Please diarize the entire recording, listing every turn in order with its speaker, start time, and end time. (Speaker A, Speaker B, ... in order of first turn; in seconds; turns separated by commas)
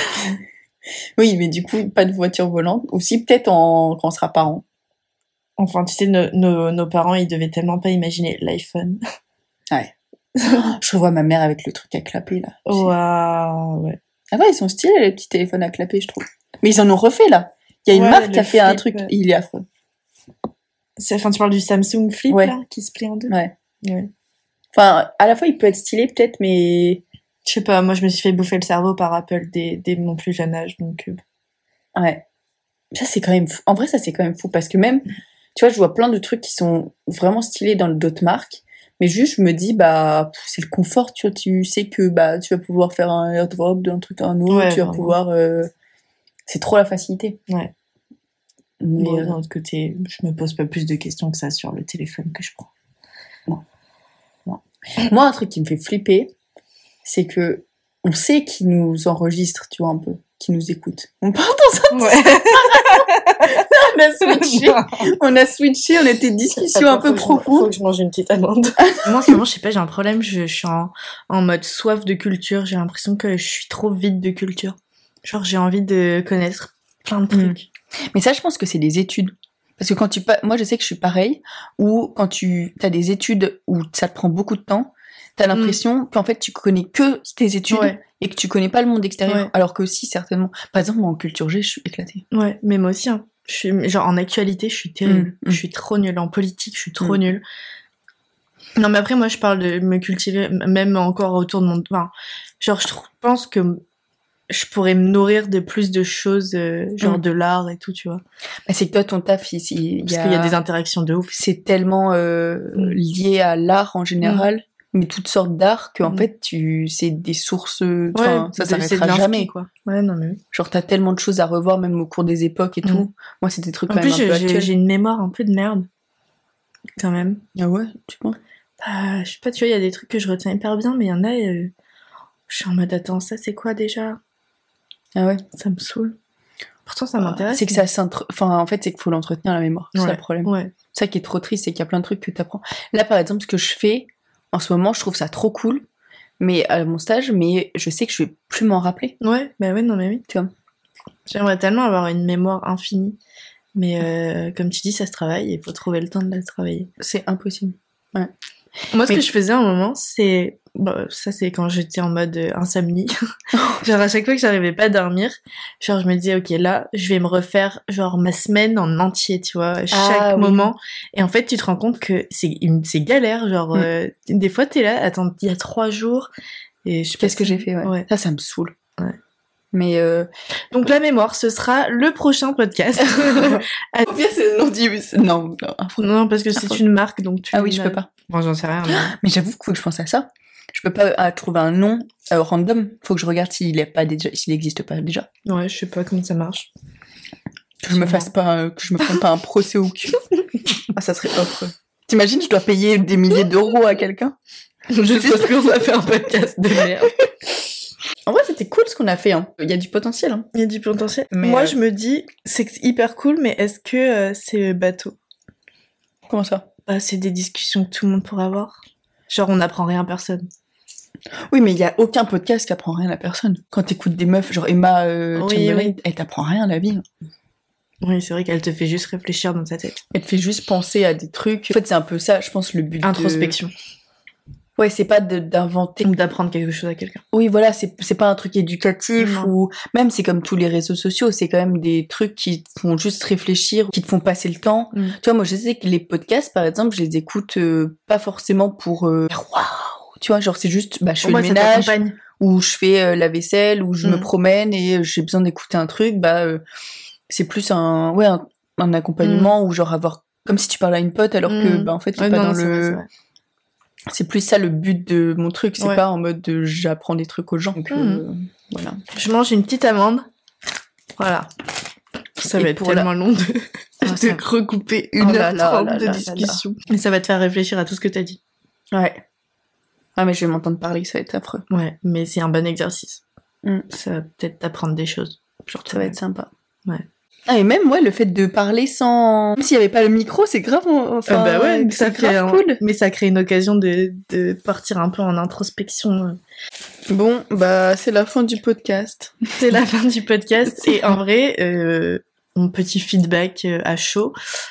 Speaker A: 1.2-4.6, Speaker B: 5.6-9.0, Speaker B: 10.4-10.7, Speaker A: 10.4-12.9, Speaker B: 12.7-14.0, Speaker A: 14.3-19.6, Speaker B: 17.9-19.1, Speaker B: 21.0-24.1, Speaker A: 22.3-22.5, Speaker A: 24.7-27.0, Speaker B: 27.4-31.2, Speaker A: 31.9-32.2, Speaker A: 32.9-45.7, Speaker B: 44.5-45.1, Speaker A: 46.5-47.4, Speaker A: 48.8-49.4, Speaker B: 49.0-52.7, Speaker A: 54.5-56.3, Speaker A: 57.0-67.7, Speaker B: 61.9-63.6, Speaker B: 64.2-65.0, Speaker B: 66.7-77.7, Speaker A: 68.8-69.3, Speaker A: 77.3-77.6, Speaker A: 78.1-92.2, Speaker B: 85.5-85.8, Speaker B: 87.7-88.0, Speaker B: 89.3-89.5, Speaker B: 92.3-97.4, Speaker A: 95.0-95.6, Speaker B: 98.8-103.8, Speaker B: 104.5-108.2, Speaker A: 108.7-110.6, Speaker B: 110.0-111.3, Speaker A: 111.3-119.5, Speaker B: 114.2-114.5, Speaker B: 118.1-120.4, Speaker A: 120.5-124.7, Speaker B: 123.9-125.9, Speaker B: 127.0-127.4, Speaker A: 127.5-128.4, Speaker B: 128.8-131.7, Speaker B: 132.5-134.2, Speaker A: 135.1-135.4, Speaker B: 135.6-136.2, Speaker B: 136.8-137.8, Speaker A: 137.2-145.8, Speaker B: 139.9-140.7, Speaker A: 146.4-149.2, Speaker B: 149.2-150.2, Speaker B: 151.3-153.2, Speaker B: 153.7-156.9, Speaker A: 157.0-158.3, Speaker B: 158.9-163.1, Speaker A: 163.5-163.8, Speaker B: 163.8-176.3, Speaker A: 169.9-170.7, Speaker B: 176.8-178.1, Speaker A: 177.2-178.8, Speaker A: 179.7-180.3, Speaker B: 180.7-184.1, Speaker A: 183.1-186.0, Speaker B: 186.0-189.1, Speaker A: 186.6-186.8, Speaker A: 187.5-188.1, Speaker A: 188.9-195.3, Speaker B: 195.4-196.7, Speaker A: 197.8-200.2, Speaker B: 197.9-198.3, Speaker A: 200.9-204.3, Speaker B: 201.0-201.7, Speaker B: 204.9-207.1, Speaker A: 205.1-205.9, Speaker A: 208.2-210.5, Speaker B: 210.5-215.2, Speaker A: 211.3-211.8, Speaker A: 216.3-216.7, Speaker B: 216.9-220.5, Speaker A: 221.5-227.0, Speaker B: 225.3-226.0, Speaker B: 228.0-230.0, Speaker A: 230.1-233.6, Speaker B: 233.0-233.7, Speaker A: 234.8-236.1, Speaker B: 236.0-237.2, Speaker A: 237.3-256.6, Speaker B: 239.2-239.5, Speaker B: 251.2-252.2, Speaker B: 254.0-254.3, Speaker A: 257.3-263.0, Speaker B: 259.2-259.5, Speaker B: 261.5-263.1, Speaker A: 264.1-269.0, Speaker B: 267.9-268.2, Speaker B: 269.1-270.2, Speaker B: 271.2-271.5, Speaker B: 272.4-278.4, Speaker A: 272.5-273.1, Speaker A: 274.0-274.4, Speaker A: 275.1-276.6, Speaker A: 278.9-279.2, Speaker A: 280.1-281.6, Speaker B: 281.7-283.2, Speaker B: 283.9-286.1, Speaker A: 285.9-286.5, Speaker A: 287.5-292.8, Speaker B: 291.3-296.4, Speaker A: 297.1-299.8, Speaker B: 299.6-304.3